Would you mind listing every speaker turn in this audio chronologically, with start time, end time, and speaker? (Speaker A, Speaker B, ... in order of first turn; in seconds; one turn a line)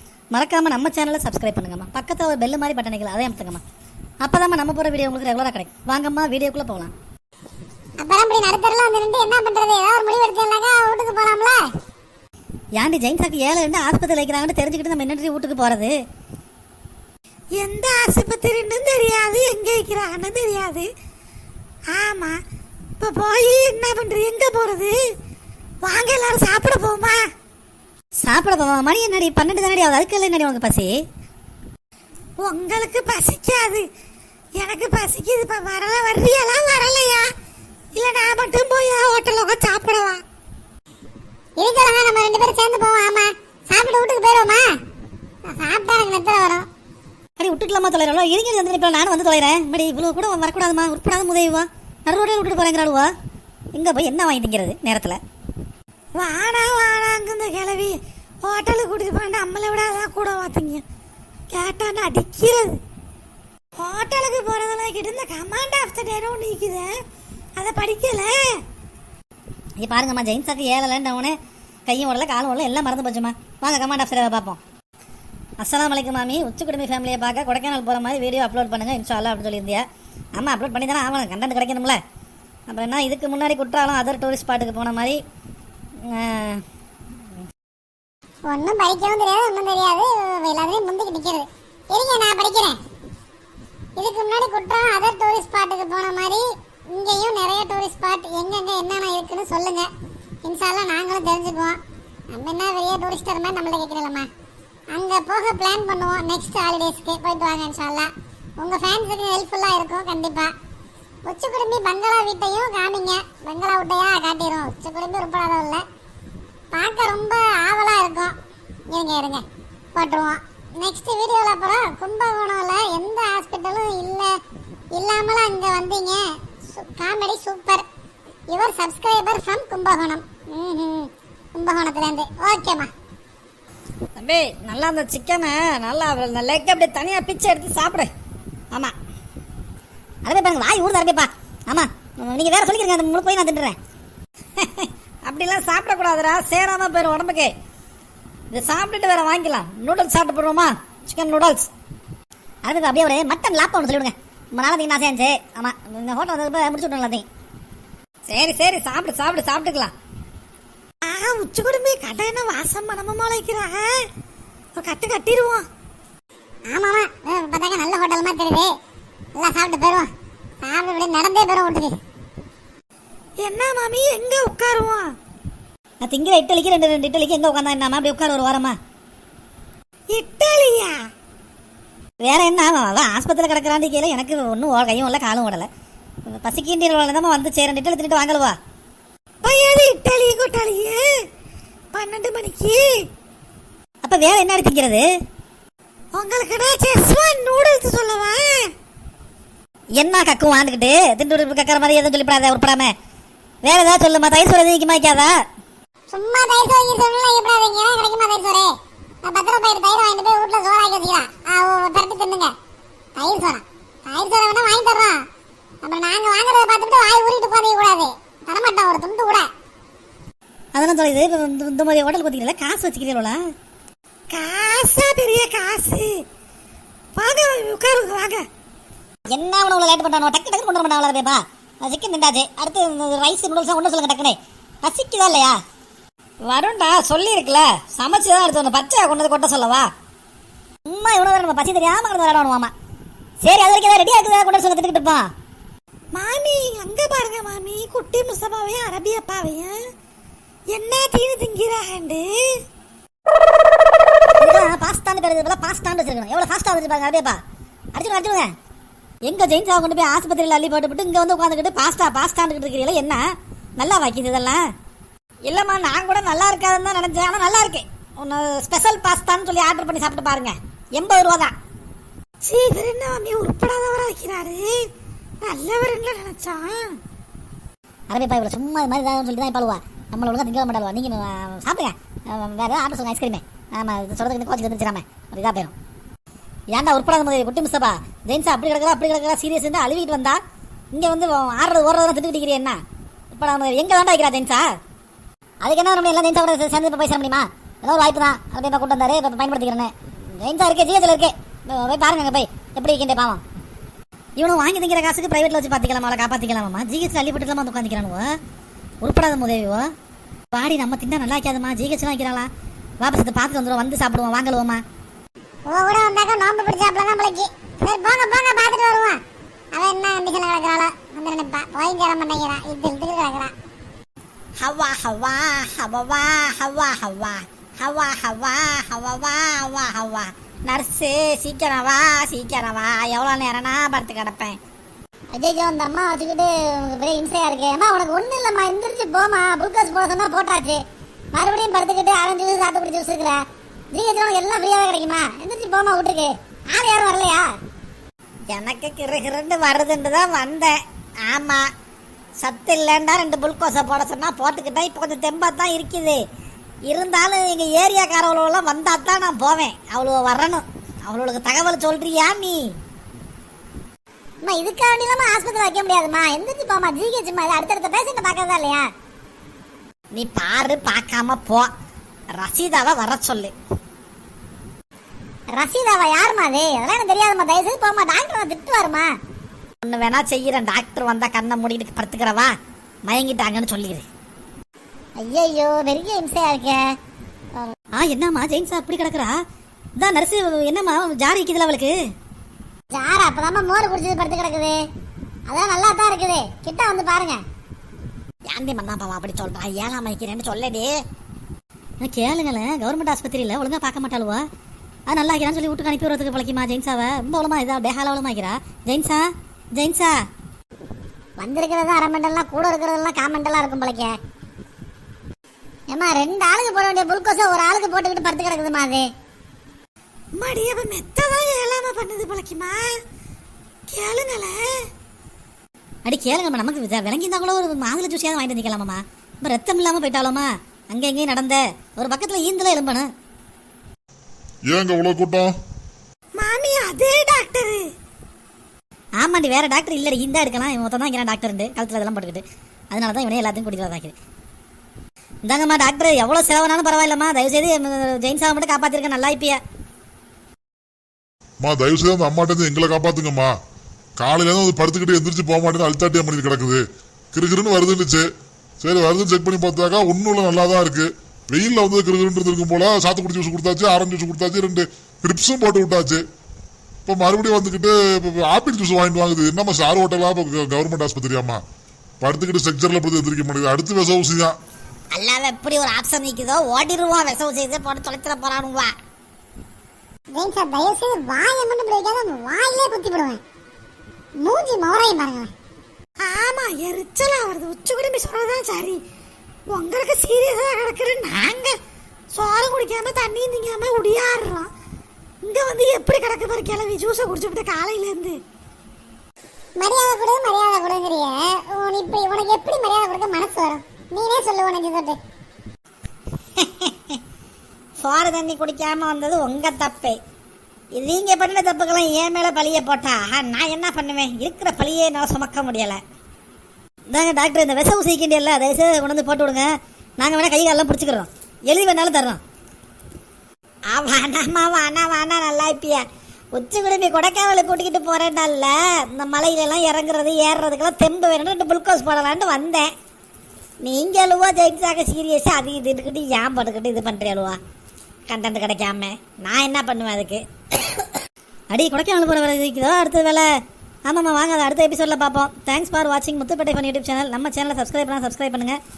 Speaker A: 0.3-3.6
Speaker A: 4.2-6.9
Speaker B: 8.0-11.6
Speaker A: 12.8-15.9
Speaker C: 17.6-20.9
Speaker C: 21.9-22.4
Speaker C: 23.0-25.0
Speaker C: 25.8-27.2
Speaker A: 28.2-30.9
Speaker C: 32.4-33.9
Speaker C: 34.6-37.3
Speaker C: 38.0-40.2
Speaker B: 41.6-44.7
Speaker B: 45.5-46.7
Speaker A: 47.4-53.1
Speaker A: 53.7-55.2
Speaker C: 56.2-60.8
Speaker C: 61.5-62.8
Speaker C: 63.8-66.9
Speaker C: 67.6-68.6
Speaker A: 69.8-71.4
Speaker A: 71.9-74.6
Speaker A: 75.6-82.0
Speaker A: 82.7-85.2
Speaker A: 86.1-86.6
Speaker B: 88.5-92.8
Speaker B: 94.0-99.9
Speaker B: 100.4-101.8
Speaker B: 102.3-104.3
Speaker B: 104.9-110.5
Speaker B: 111.2-115.8
Speaker B: 116.7-118.3
Speaker B: 118.9-119.5
Speaker B: 120.0-124.3
Speaker B: 124.9-127.8
Speaker B: 128.5-132.9
Speaker A: 134.2-138.1
Speaker A: 140.2-143.8
Speaker A: 144.6-147.5
Speaker A: 148.5-151.7
Speaker A: 152.6-157.3
Speaker A: 158.3-159.9
Speaker C: 161.0-163.9
Speaker C: 164.8-165.7
Speaker B: 166.7-168.7
Speaker B: 169.4-170.1
Speaker B: 170.6-172.0
Speaker C: 173.4-175.1
Speaker A: 176.0-178.8
Speaker C: 180.1-181.0
Speaker A: 182.2-185.7
Speaker A: 186.3-188.6
Speaker C: 189.4-191.2
Speaker C: 191.9-193.1
Speaker A: 194.0-195.1
Speaker C: 196.1-198.7
Speaker A: 200.0-202.9
Speaker A: 203.7-205.3
Speaker B: 206.1-208.7
Speaker B: 209.2-212.5
Speaker B: 213.2-215.2
Speaker B: 215.8-219.5
Speaker A: 220.8-223.4
Speaker C: 224.3-226.2
Speaker C: 227.2-228.4
Speaker A: 229.3-235.6
Speaker A: 236.4-239.9
Speaker A: 240.9-242.7
Speaker A: 243.4-245.3
Speaker C: 246.2-249.8
Speaker C: 250.7-252.6
Speaker A: 254.4-257.4
Speaker A: 257.9-258.5
Speaker A: 259.2-263.3
Speaker A: 263.8-264.7
Speaker A: 265.5-271.6
Speaker C: 272.4-274.9
Speaker C: 275.4-277.0
Speaker A: 278.1-285.8
Speaker A: 286.7-290.4
Speaker A: 290.9-294.7
Speaker A: 295.6-303.4
Speaker A: 304.4-308.4
Speaker A: 309.0-309.9
Speaker A: 310.5-312.5
Speaker A: 313.0-314.8
Speaker B: 315.7-319.2
Speaker B: 319.7-323.5
Speaker A: 324.6-334.6
Speaker B: 335.3-340.8
Speaker B: 341.4-343.4
Speaker B: 343.9-347.5
Speaker A: 348.5-351.7
Speaker A: 352.4-356.2
Speaker A: 356.9-362.8
Speaker B: 364.4-368.9
Speaker A: 370.1-371.7
Speaker A: 372.3-373.5
Speaker B: 375.5-379.1
Speaker A: 379.8-382.5
Speaker A: 383.1-384.1
Speaker B: 385.2-386.9
Speaker A: 388.0-389.4
Speaker A: 390.0-392.0
Speaker B: 392.9-394.8
Speaker B: 395.5-397.4
Speaker A: 398.5-401.0
Speaker A: 402.0-404.5
Speaker A: 405.1-410.2
Speaker B: 411.4-414.1
Speaker B: 415.9-419.1
Speaker C: 420.4-423.0
Speaker C: 423.9-424.6
Speaker A: 426.1-433.1
Speaker D: 434.7-435.6
Speaker C: 436.4-437.9
Speaker A: 439.2-444.1
Speaker A: 445.5-449.6
Speaker D: 451.6-453.6
Speaker D: 454.2-458.3
Speaker D: 458.8-466.2
Speaker D: 467.1-471.6
Speaker D: 472.2-474.6
Speaker A: 475.1-478.9
Speaker B: 480.3-483.4
Speaker B: 484.4-485.5
Speaker C: 486.2-489.0
Speaker C: 489.7-491.8
Speaker C: 492.3-494.7
Speaker C: 495.4-498.4
Speaker B: 499.8-505.2
Speaker A: 506.6-507.2
Speaker A: 508.0-510.2
Speaker A: 511.0-516.0
Speaker A: 517.1-522.4
Speaker A: 523.9-526.0
Speaker A: 526.5-532.9
Speaker A: 533.8-537.6
Speaker A: 538.3-541.0
Speaker A: 541.7-543.5
Speaker A: 544.1-548.8